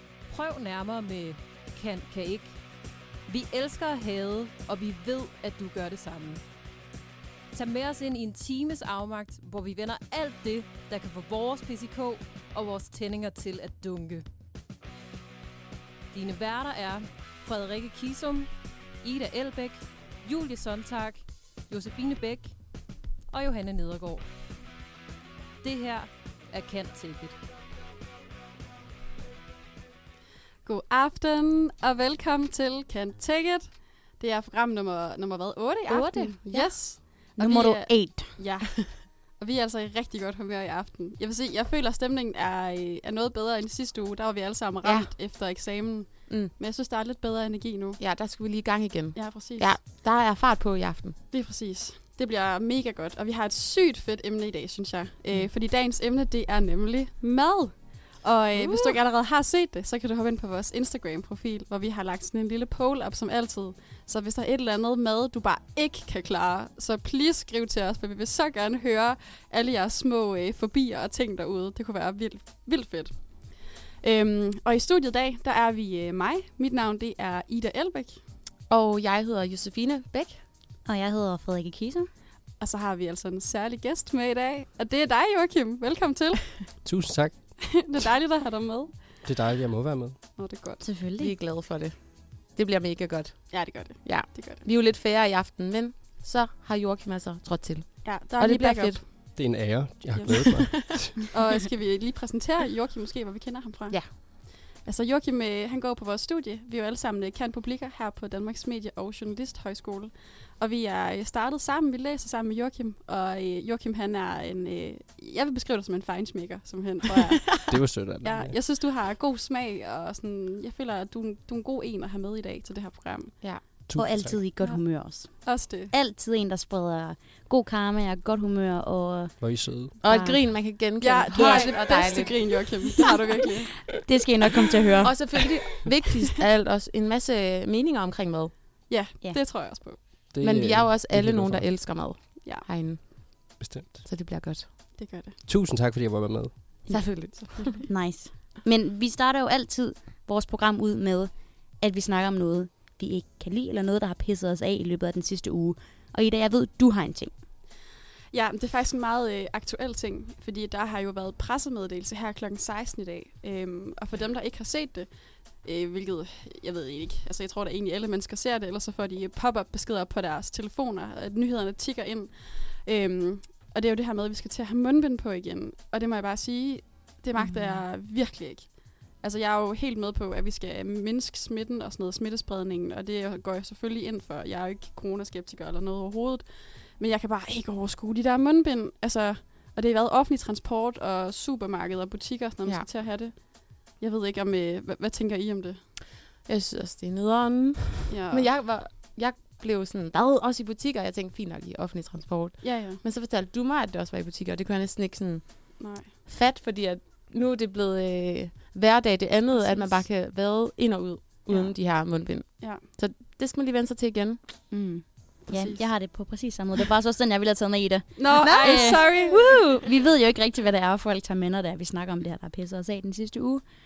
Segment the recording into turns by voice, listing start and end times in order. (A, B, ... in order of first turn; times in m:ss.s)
0:00.3-0:02.6 A
0:03.3-0:06.4 A
0:07.5-0:14.2 A
0:16.1-0:18.5 A
0:19.0-0:22.5 A
0:23.3-0:24.3 A
0:25.6-0:27.4 A
0:30.6-0:48.0 B
0:35.9-0:36.8 C
0:37.4-0:38.4 D
0:44.8-0:45.1 C
0:48.0-0:51.2 C
0:49.1-0:49.7 B
0:51.3-1:18.2 B
1:18.7-1:20.4 C
1:20.8-1:22.1 D
1:22.6-1:26.7 B
1:26.8-1:27.5 E
1:27.6-1:29.2 B
1:29.2-1:30.2 E
1:30.4-1:30.8 B
1:30.8-1:31.3 D
1:31.2-1:39.0 C
1:33.5-1:34.6 B
1:38.0-1:39.2 B
1:39.3-1:41.2 E
1:40.1-1:57.6 B
1:57.7-1:58.6 E
1:58.2-2:03.4 B
2:03.9-2:04.4 E
2:03.9-2:10.4 D
2:05.4-2:05.9 B
2:09.4-2:09.9 E
2:10.0-2:12.7 C
2:11.0-2:13.8 B
2:14.0-2:15.2 D
2:15.0-2:18.5 C
2:18.9-2:20.0 B
2:20.3-2:21.7 E
2:20.4-2:23.2 C
2:23.6-2:24.0 E
2:24.0-2:24.7 C
2:25.0-2:25.4 B
2:25.4-2:26.9 E
2:26.9-2:27.8 C
2:26.9-2:37.3 D
2:38.3-3:15.8 B
2:57.4-2:57.8 C
3:16.4-3:34.4 C
3:18.1-3:18.5 B
3:22.6-3:23.0 B
3:25.8-3:26.1 B
3:29.6-3:30.0 B
3:31.5-3:31.7 B
3:34.7-3:43.6 D
3:35.5-3:35.8 B
3:38.2-3:39.7 B